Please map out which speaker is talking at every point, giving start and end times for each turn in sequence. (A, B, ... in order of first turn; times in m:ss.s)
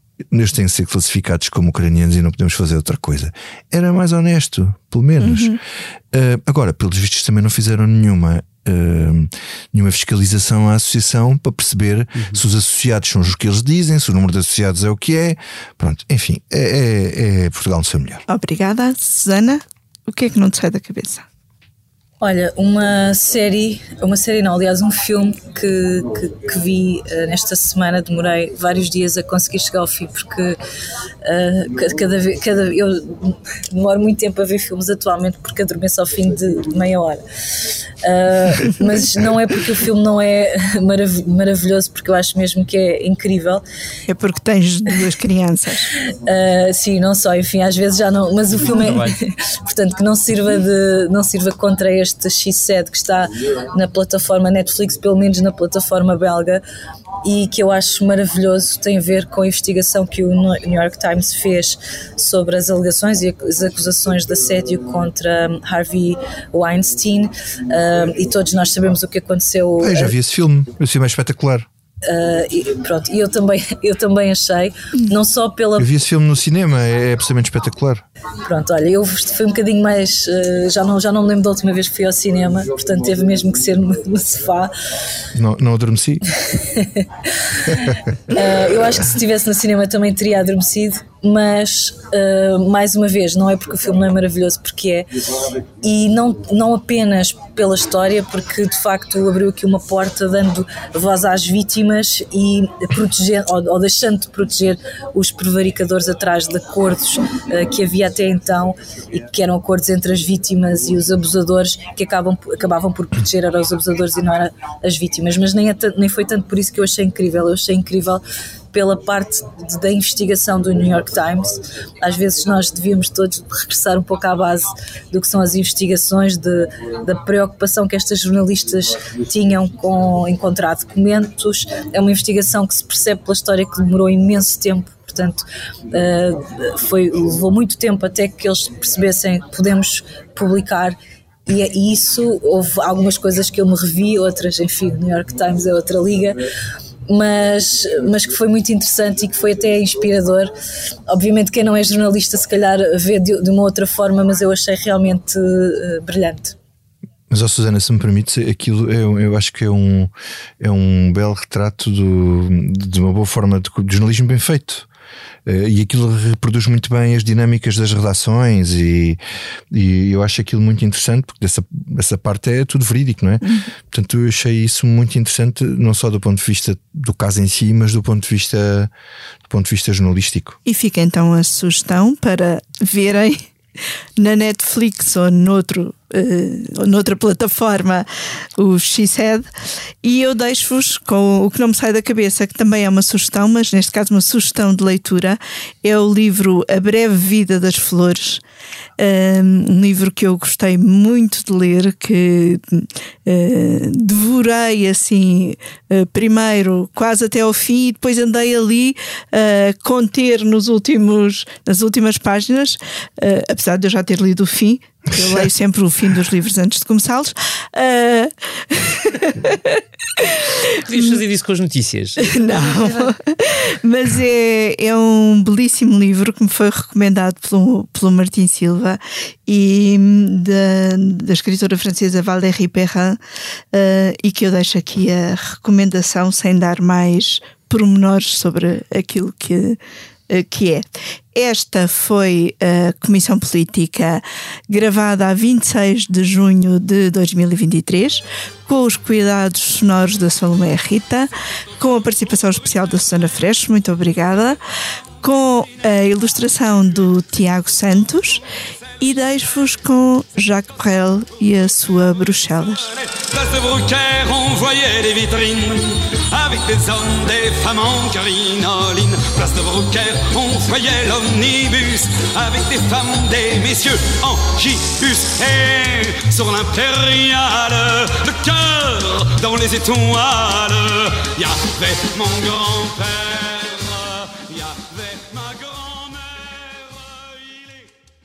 0:00.3-0:05.6 A
0:05.2-0:05.6 B
0:06.1-0:18.2 A
0:18.3-0:21.2 B
0:22.2-0:30.6 C
0:31.2-0:37.2 C
0:38.0-0:43.6 C
0:44.1-0:45.9 B
0:46.0-0:56.6 C
0:48.7-0:49.2 D
0:57.2-1:10.1 C
1:09.8-1:11.7 A
1:12.0-1:15.9 C
1:15.8-1:18.0 A
1:18.4-1:24.7 C
1:25.3-1:26.2 A
1:26.4-2:26.4 C
2:27.1-2:30.5 C
2:31.1-2:36.6 C
2:37.3-2:44.9 A
2:45.4-2:49.2 A
2:49.7-2:58.9 A
2:53.4-2:53.7 B
2:59.5-3:00.6 A
3:00.6-3:03.5 B
3:04.2-3:09.5 B
3:10.0-3:18.4 B
3:19.0-3:41.2 B
3:40.8-3:42.7 D
3:42.2-3:53.2 B
3:53.7-4:14.6 B
4:15.2-4:18.4 B
4:19.0-4:22.9 B
4:23.1-4:47.9 E